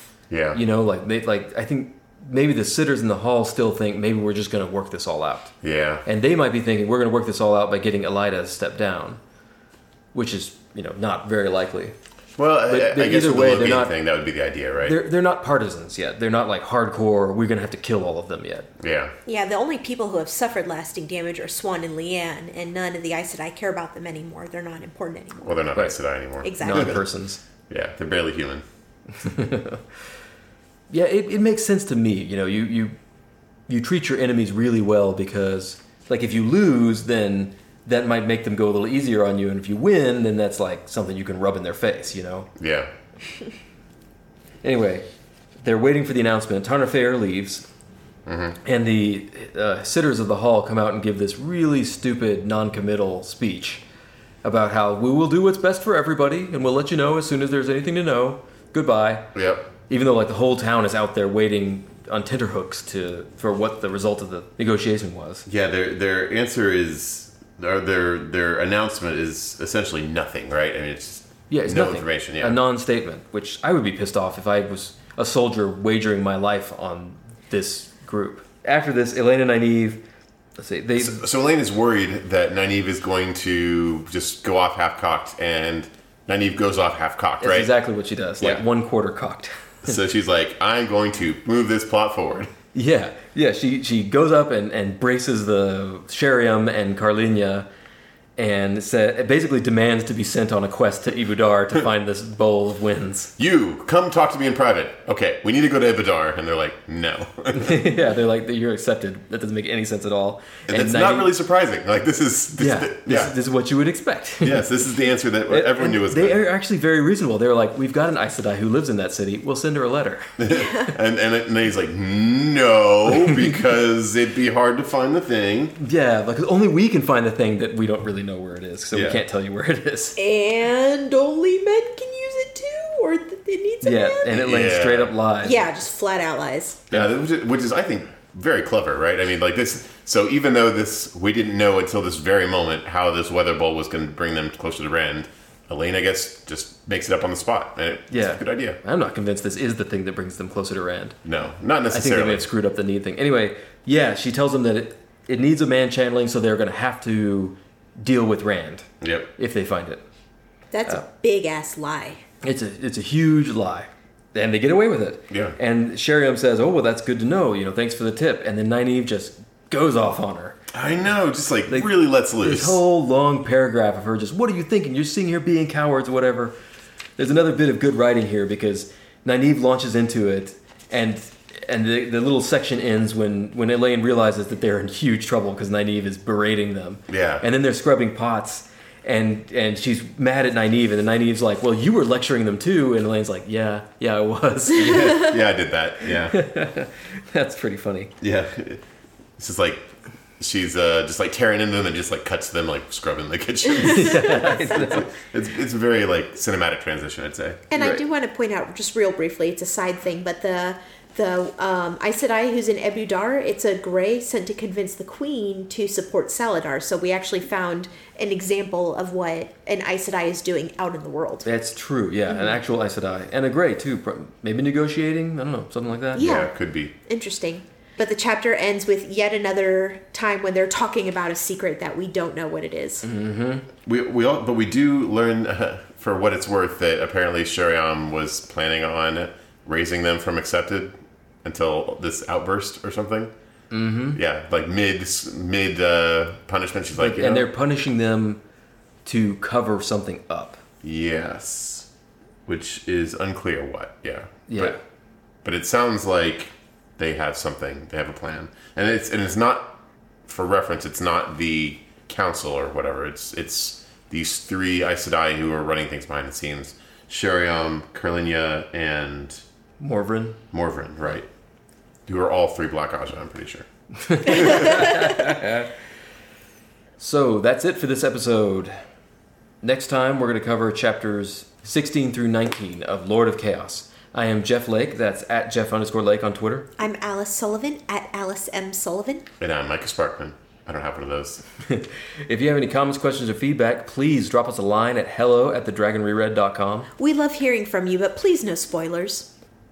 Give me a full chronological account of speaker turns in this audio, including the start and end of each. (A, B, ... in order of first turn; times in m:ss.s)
0:00.3-0:00.6 A
0:00.5-0:05.5 B
0:05.6-0:06.0 A
0:06.0-0:09.2 B
0:10.1-0:11.9 B
0:12.4-0:15.0 A
0:12.6-0:13.9 B
0:14.8-0:18.7 B
0:18.8-0:19.1 A
0:19.2-0:25.6 C
0:25.4-0:27.0 A
0:26.4-0:27.0 C
0:26.6-0:27.4 B
0:27.7-0:28.6 A
0:29.1-0:29.8 B
0:30.9-0:32.9 B
0:33.7-0:42.5 B
0:42.6-0:42.9 A
0:44.6-0:45.0 B
0:45.6-0:47.7 B
0:48.2-0:48.6 A
0:48.6-0:53.8 B
0:54.4-0:59.3 B
0:59.3-0:59.7 A
0:59.9-1:05.4 B
1:05.4-1:12.6 A
1:11.5-1:20.0 B
1:20.6-1:21.2 B
1:21.0-1:27.7 A
1:27.4-1:29.9 B
1:29.8-1:32.5 A
1:32.7-1:37.6 B
1:38.4-1:43.3 B
1:43.4-1:47.8 A
1:47.5-1:51.3 B
1:50.7-1:53.3 A
1:52.6-1:54.7 B
1:54.4-1:56.4 A
1:55.5-2:00.3 B
2:00.4-2:05.7 A
2:00.5-2:00.9 C
2:03.2-2:03.5 B
2:05.8-2:10.2 B
2:08.9-2:09.2 A
2:10.2-2:14.4 C
2:13.8-2:15.7 B
2:14.3-2:15.1 A
2:15.4-2:16.8 C
2:16.9-2:28.8 A
2:28.1-2:31.2 B
2:31.2-2:32.5 A
2:31.9-2:40.0 B
2:39.0-2:39.3 A
2:40.7-2:42.2 C
2:42.4-2:50.6 B
2:45.3-2:45.6 A
2:50.7-2:52.8 A
2:51.7-2:56.5 B
2:57.2-3:15.4 B
3:07.1-3:07.4 A
3:14.8-3:16.4 A
3:16.3-3:18.1 B
3:18.2-3:18.8 A
3:19.4-3:27.7 A
3:23.8-3:25.1 B
3:24.0-3:24.6 C
3:27.7-3:41.5 C
3:27.8-3:28.0 B
3:41.4-3:46.2 B
3:42.3-3:42.6 C
3:46.1-3:46.9 A
3:46.1-3:53.1 C
3:53.0-3:53.6 B
3:53.8-4:03.3 A
4:03.7-4:04.2 B
4:04.1-4:07.5 A
4:06.9-4:08.4 B
4:09.0-4:10.6 B
4:10.8-4:11.9 A
4:12.5-4:14.8 A
4:14.5-4:14.8 B
4:15.4-4:29.4 A
4:29.8-4:30.4 B
4:30.5-4:31.3 A
4:32.1-4:34.9 A
4:34.0-4:35.7 B
4:37.0-4:38.8 B
4:39.6-4:46.7 B
4:46.8-4:49.3 C
4:49.4-4:51.4 A
4:51.6-4:56.9 B
4:57.0-4:59.3 C